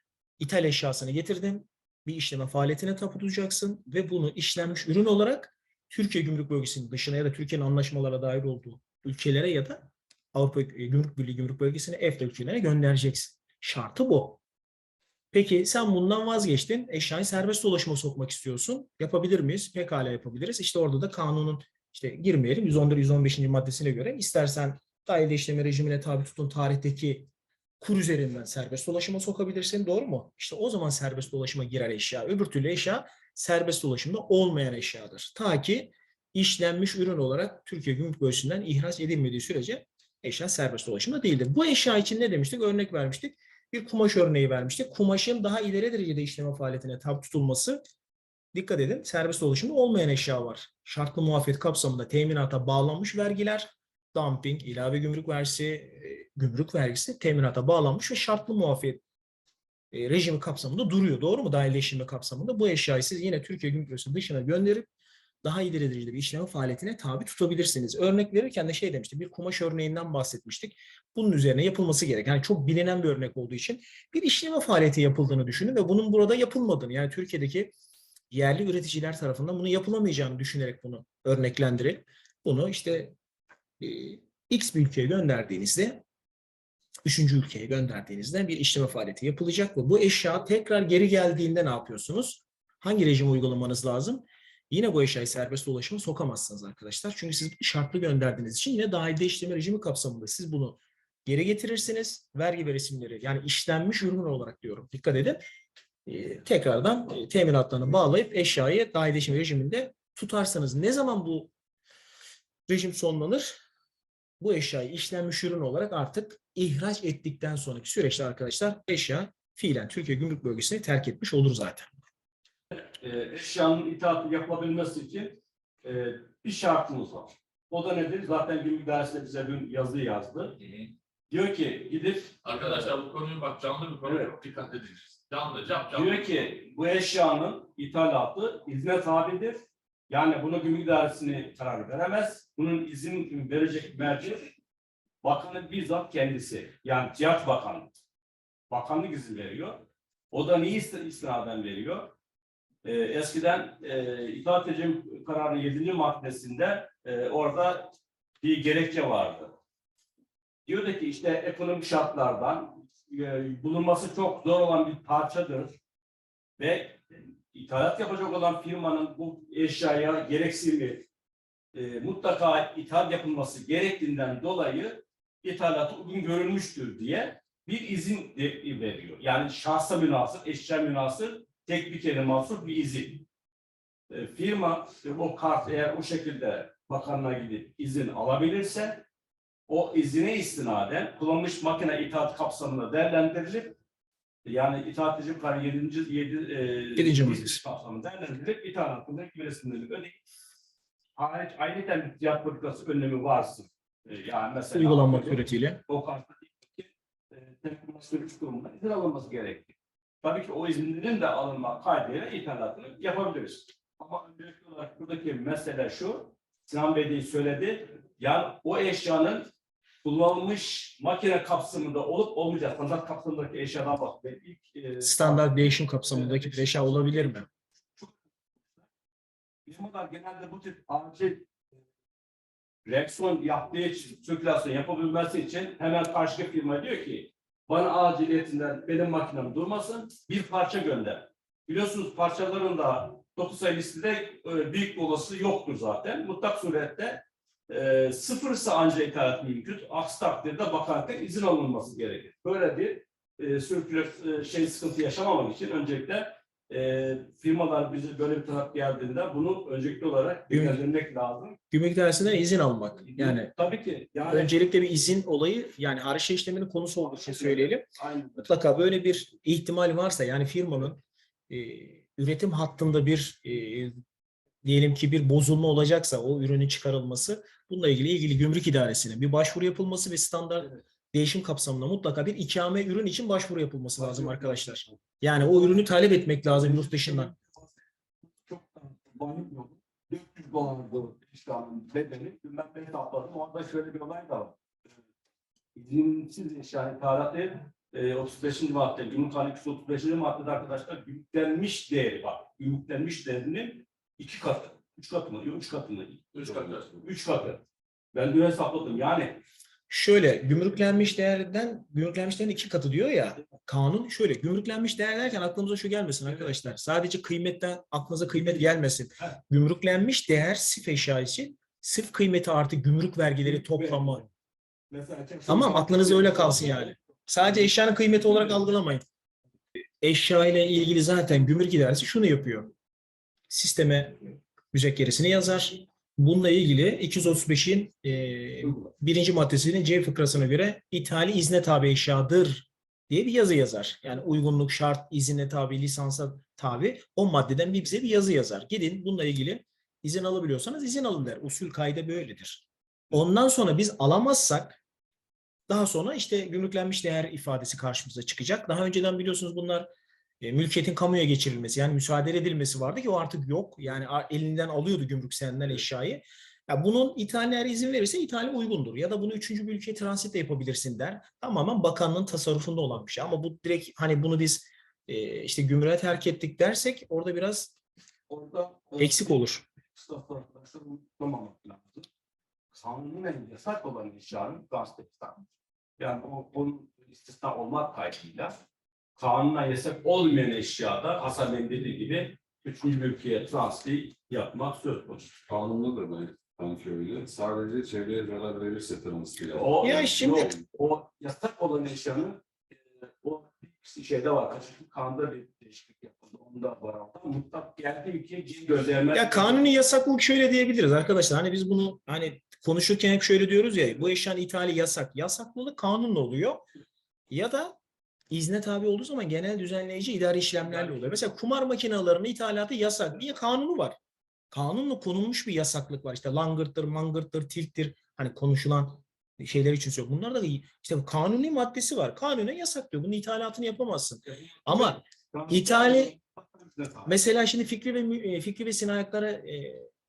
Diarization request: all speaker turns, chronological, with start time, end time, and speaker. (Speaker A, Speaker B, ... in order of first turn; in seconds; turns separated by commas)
Speaker A: 0.4-14.4, Speaker A: 15.3-27.3, Speaker A: 27.8-47.8, Speaker A: 48.5-59.0, Speaker A: 59.9-64.9, Speaker A: 65.4-77.7, Speaker A: 78.3-83.1, Speaker A: 83.8-86.0, Speaker A: 87.0-105.4, Speaker A: 106.1-111.5, Speaker A: 112.7-113.6, Speaker A: 114.4-121.9, Speaker B: 122.7-130.6, Speaker B: 131.3-132.9, Speaker C: 132.5-136.0, Speaker D: 133.8-134.2, Speaker B: 134.0-134.4, Speaker B: 135.9-139.6, Speaker B: 140.1-144.5, Speaker B: 145.2-147.9, Speaker B: 148.7-152.2, Speaker B: 152.8-159.5, Speaker B: 160.7-165.8, Speaker B: 166.6-167.0, Speaker B: 167.5-171.1, Speaker B: 171.7-183.2, Speaker B: 184.1-189.0, Speaker B: 189.7-193.8, Speaker B: 194.4-200.2, Speaker A: 197.0-197.6, Speaker B: 201.2-219.5, Speaker A: 204.7-205.8, Speaker B: 220.0-227.4, Speaker A: 225.0-227.5, Speaker B: 229.7-231.5, Speaker B: 232.8-261.6, Speaker A: 260.5-260.8, Speaker A: 261.7-263.5, Speaker B: 263.1-264.5, Speaker A: 264.3-267.9, Speaker B: 267.1-268.5, Speaker A: 268.4-273.9, Speaker A: 274.6-287.3, Speaker B: 284.0-284.9, Speaker B: 286.5-287.7, Speaker B: 288.2-294.6, Speaker B: 295.8-307.6, Speaker B: 308.1-309.4, Speaker A: 309.9-324.2, Speaker B: 323.6-324.2, Speaker B: 324.9-326.9, Speaker A: 325.5-329.0, Speaker A: 330.0-332.7, Speaker A: 333.5-354.8, Speaker A: 355.7-359.9, Speaker A: 360.4-377.7, Speaker B: 378.3-382.1, Speaker A: 379.0-379.6, Speaker B: 382.7-385.4, Speaker B: 386.0-388.5, Speaker B: 389.2-395.4, Speaker D: 395.5-399.8, Speaker B: 399.5-409.7, Speaker A: 399.8-400.5, Speaker A: 409.1-416.6, Speaker A: 417.3-417.8, Speaker A: 418.3-424.0, Speaker A: 424.5-436.1, Speaker B: 434.5-437.1, Speaker A: 437.1-439.9